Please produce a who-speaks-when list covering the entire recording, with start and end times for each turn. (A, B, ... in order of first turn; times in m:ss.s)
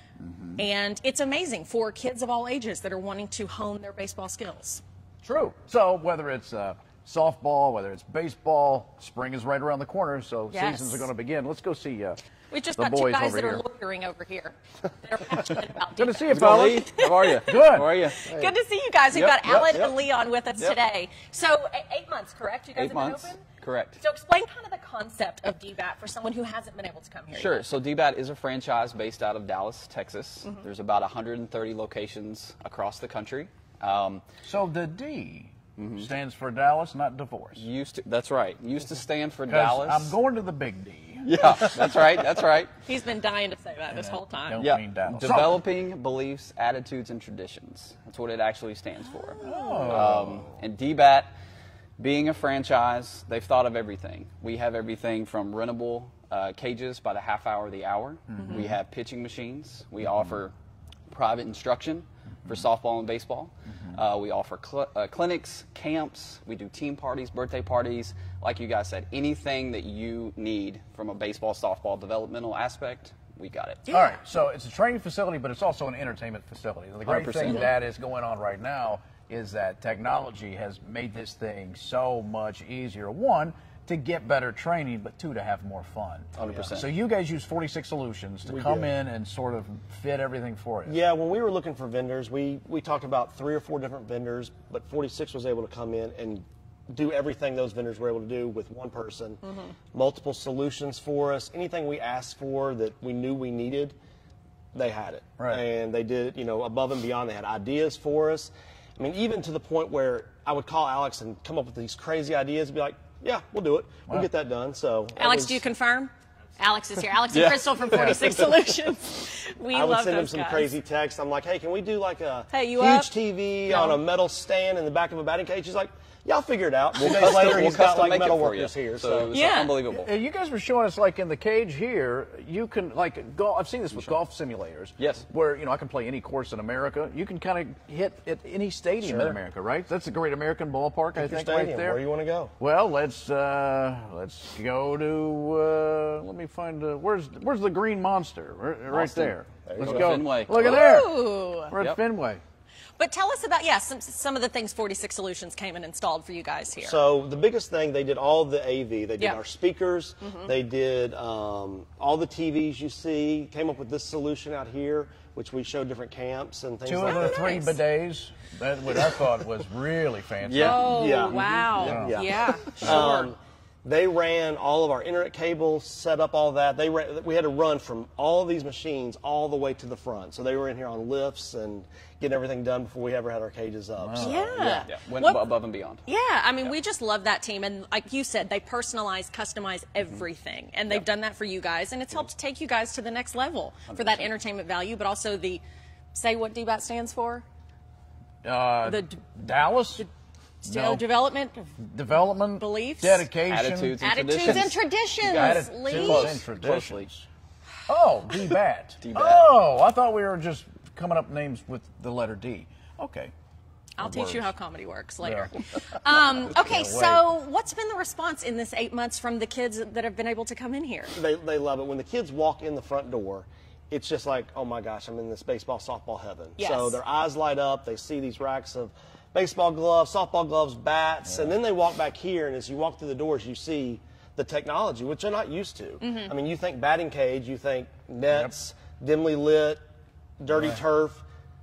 0:00.2-0:00.6 A
0:00.6-0:04.8 B
0:05.2-0:12.2 A
0:10.5-0:11.1 B
0:12.5-0:23.4 B
0:12.8-0:13.6 A
0:16.0-0:18.0 A
0:16.3-0:18.3 C
0:18.3-0:18.5 D
0:19.1-0:20.0 C
0:22.7-0:24.0 C
0:24.0-0:27.6 B
0:27.3-0:34.2 C
0:34.4-0:37.6 A
0:35.8-0:36.1 C
0:37.6-0:40.2 C
0:39.5-0:41.7 A
0:41.2-0:42.7 C
0:42.8-0:44.7 B
0:43.9-0:45.6 A
0:44.6-0:51.3 C
0:49.4-0:49.7 B
0:49.4-0:50.6 A
0:52.0-1:00.5 C
0:58.4-0:58.6 A
1:01.1-1:13.8 C
1:13.9-1:14.2 B
1:13.9-1:31.0 A
1:17.0-1:17.7 C
1:26.4-1:26.9 C
1:26.4-1:26.7 D
1:28.4-1:28.9 D
1:30.8-1:44.0 D
1:44.7-1:55.6 D
1:55.2-2:00.7 B
1:57.3-1:58.5 C
1:57.9-1:58.2 A
1:59.7-2:09.3 D
2:02.5-2:03.1 B
2:03.7-2:04.0 B
2:07.0-2:10.1 C
2:09.3-2:09.8 B
2:09.9-2:22.0 A
2:15.0-2:15.3 C
2:19.0-2:19.4 D
2:21.2-2:22.5 D
2:22.6-2:32.4 A
2:29.0-2:29.3 C
2:29.7-2:30.3 D
2:29.8-2:30.9 C
2:30.5-2:31.7 B
2:33.0-2:37.0 B
2:36.8-2:47.6 D
2:46.9-2:52.2 A
2:47.0-2:47.7 B
2:50.4-2:51.0 C
2:50.6-2:53.3 B
2:50.8-3:04.9 D
3:04.0-3:04.8 A
3:04.2-3:15.6 B
3:04.9-3:06.1 C
3:13.9-3:14.3 C
3:16.1-3:17.4 B
3:18.4-3:20.1 A
3:18.8-3:19.2 B
3:20.6-3:21.7 B
3:20.7-3:21.0 A
3:21.8-3:24.7 A
3:22.6-3:23.3 B
3:23.4-3:27.1 C
3:24.0-3:26.4 B
3:25.2-3:27.3 A
3:27.9-3:33.3 A
3:29.0-3:29.5 C
3:34.0-3:41.2 B
3:34.0-3:34.5 A
3:35.2-3:35.5 A
3:36.4-3:37.3 A
3:41.2-3:59.8 D
3:46.6-3:47.0 B
3:56.0-3:56.3 B
4:00.4-4:01.2 D